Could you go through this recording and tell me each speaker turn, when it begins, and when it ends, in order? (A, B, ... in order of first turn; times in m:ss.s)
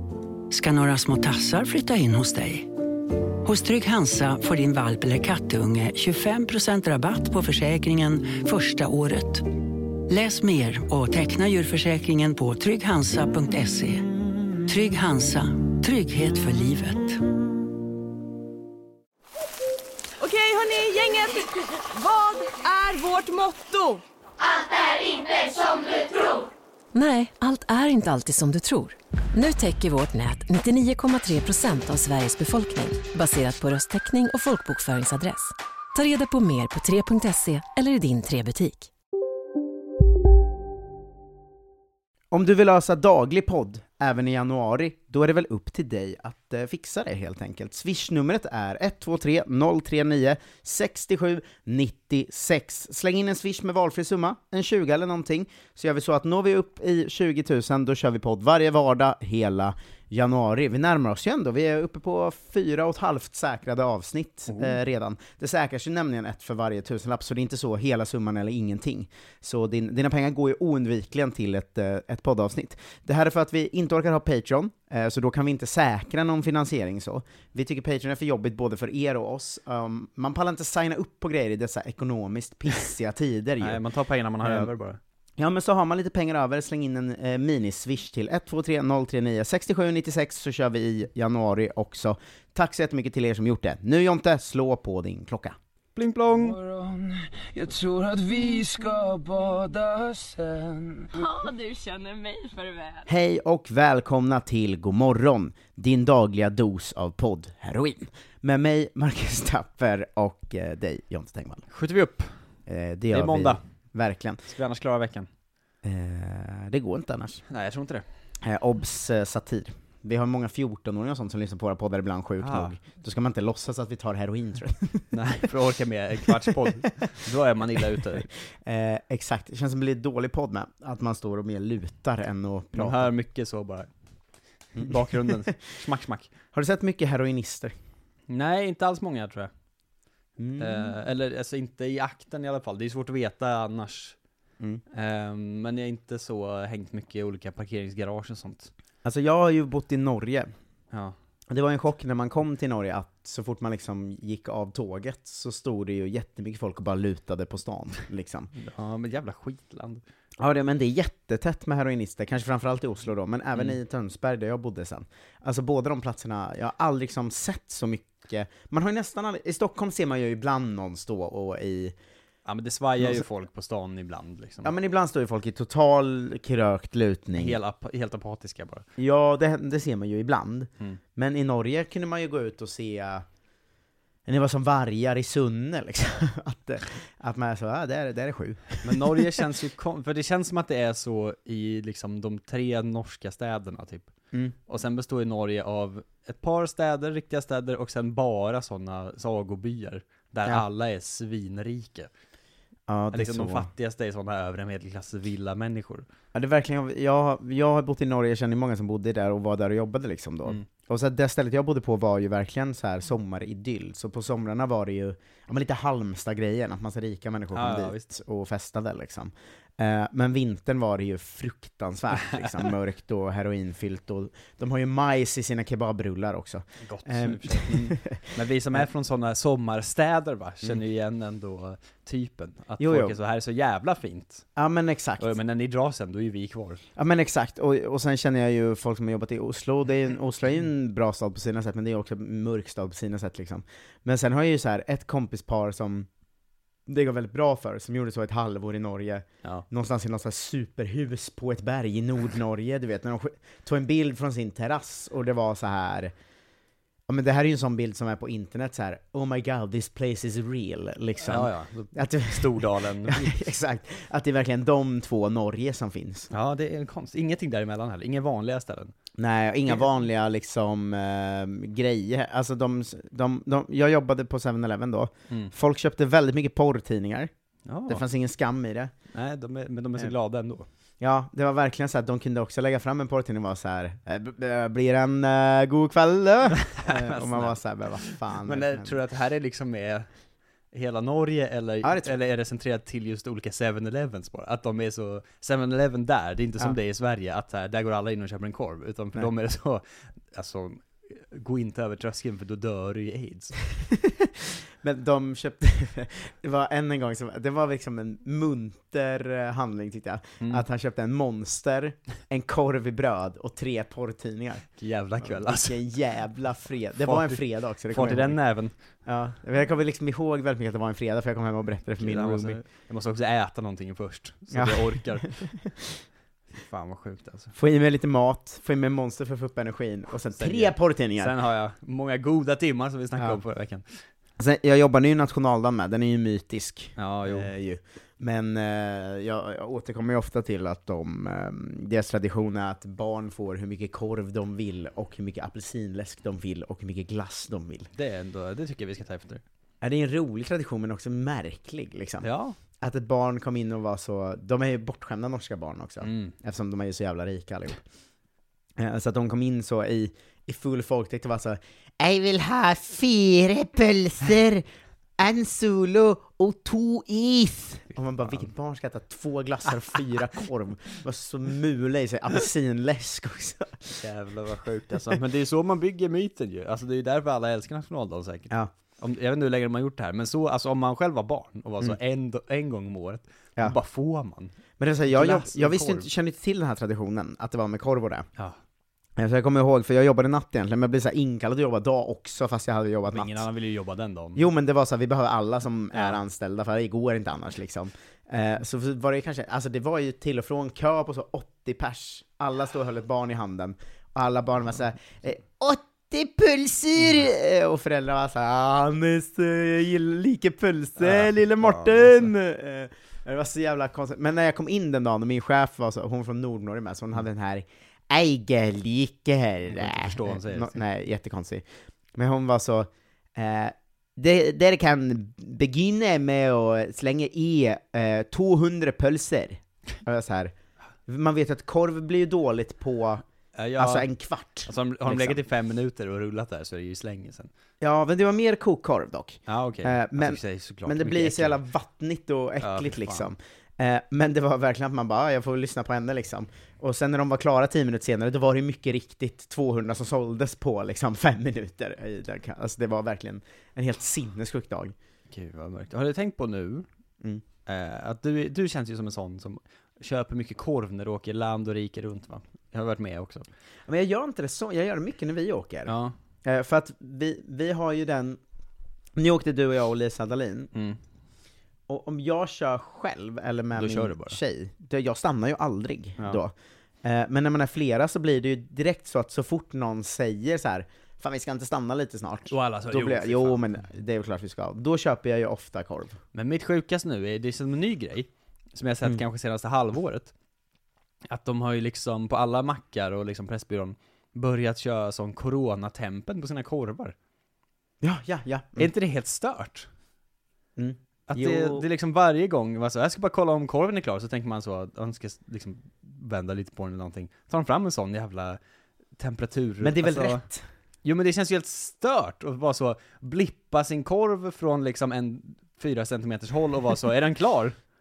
0:00.5-0:02.7 A
0:03.4-0:14.0 A
0:14.6-0:17.2 A
0:20.2-0:24.0 B
0:26.9-0:38.9 C
0:42.3-1:23.8 D
1:04.5-1:04.8 E
1:23.6-1:25.0 E
1:24.4-1:24.7 D
1:25.4-1:35.6 D
1:36.0-1:36.6 E
1:37.6-1:40.6 F
1:43.0-1:51.6 D
1:51.7-1:52.3 E
1:52.7-1:54.4 D
1:53.1-1:53.6 E
1:54.4-1:55.3 E
1:55.8-1:57.4 D
1:57.5-1:58.0 E
1:58.4-2:05.2 D
2:02.4-2:02.8 E
2:05.1-2:08.3 E
2:08.6-2:13.1 D
2:12.7-2:13.9 E
2:14.8-2:16.3 E
2:14.8-2:15.5 D
2:16.5-2:17.7 D
2:18.3-2:19.5 E
2:20.4-2:21.0 D
2:20.6-2:24.2 E
2:24.9-2:28.7 E
2:29.0-2:30.5 D
2:30.9-2:31.2 E
2:31.5-2:38.5 D
2:38.5-2:40.0 E
2:40.4-2:51.9 D
2:52.4-2:54.7 E
2:54.6-2:57.6 D
2:57.3-2:58.9 E
2:59.0-3:03.2 D
3:04.3-3:09.2 D
3:08.8-3:14.1 E
3:14.7-3:22.1 E
3:22.9-3:23.7 D
3:23.1-3:26.1 E
3:26.3-3:48.2 D
3:37.5-3:38.0 E
3:42.2-3:42.6 E
3:46.8-3:54.4 E
3:52.8-3:53.2 D
3:54.6-3:55.3 D
3:55.2-3:56.8 E
3:57.0-4:06.1 D
4:06.9-4:16.1 D
4:17.1-4:26.3 D
4:21.2-4:23.4 E
4:26.3-4:28.9 E
4:29.2-4:37.3 D
4:29.6-4:29.9 E
4:37.6-4:38.0 E
4:37.9-4:38.9 D
4:39.1-4:40.7 E
4:41.0-4:49.0 D
4:46.5-4:50.1 E
4:50.7-5:03.6 E
4:51.8-4:52.1 D
5:04.8-5:14.6 D
5:10.4-5:10.6 E
5:14.8-5:15.8 E
5:15.2-5:18.4 D
5:17.0-5:18.7 E
5:19.0-5:22.6 D
5:22.0-5:25.3 E
5:24.5-5:26.0 D
5:26.6-5:27.5 E
5:27.6-5:31.4 D
5:30.3-5:33.8 E
5:34.4-5:47.9 D
5:37.0-5:37.5 E
5:47.9-5:49.4 E
5:49.8-5:52.3 D
5:52.2-5:52.6 E
5:52.8-5:57.8 D
5:56.0-5:56.3 E
5:58.8-6:04.6 D
6:05.2-6:14.0 D
6:14.0-6:24.5 E
6:24.8-6:28.3 D
6:25.0-6:26.1 E
6:29.2-6:33.4 D
6:33.1-6:34.5 E
6:34.4-7:01.6 D
6:35.9-6:36.2 E
6:51.0-6:52.3 E
6:59.7-7:00.8 E
7:02.2-7:10.5 D
7:11.1-7:13.2 D
7:13.5-7:14.1 E
7:13.8-7:15.4 D
7:14.6-7:17.5 E
7:17.8-7:34.9 D
7:19.5-7:21.6 E
7:22.6-7:23.3 E
7:35.3-7:36.8 E
7:37.6-7:43.4 E
7:43.9-7:45.9 D
7:45.8-7:46.2 E
7:46.4-7:48.4 D
7:49.2-7:50.7 D
7:50.7-7:51.0 E
7:51.9-8:06.2 D
7:53.7-7:54.4 E
8:02.5-8:03.6 E
8:06.3-8:10.3 E
8:11.3-8:17.1 E
8:18.0-8:18.9 D
8:18.8-8:19.9 E
8:20.8-8:21.8 D
8:21.3-8:28.6 E
8:29.2-8:30.4 E
8:29.8-8:30.6 D
8:31.0-8:37.8 E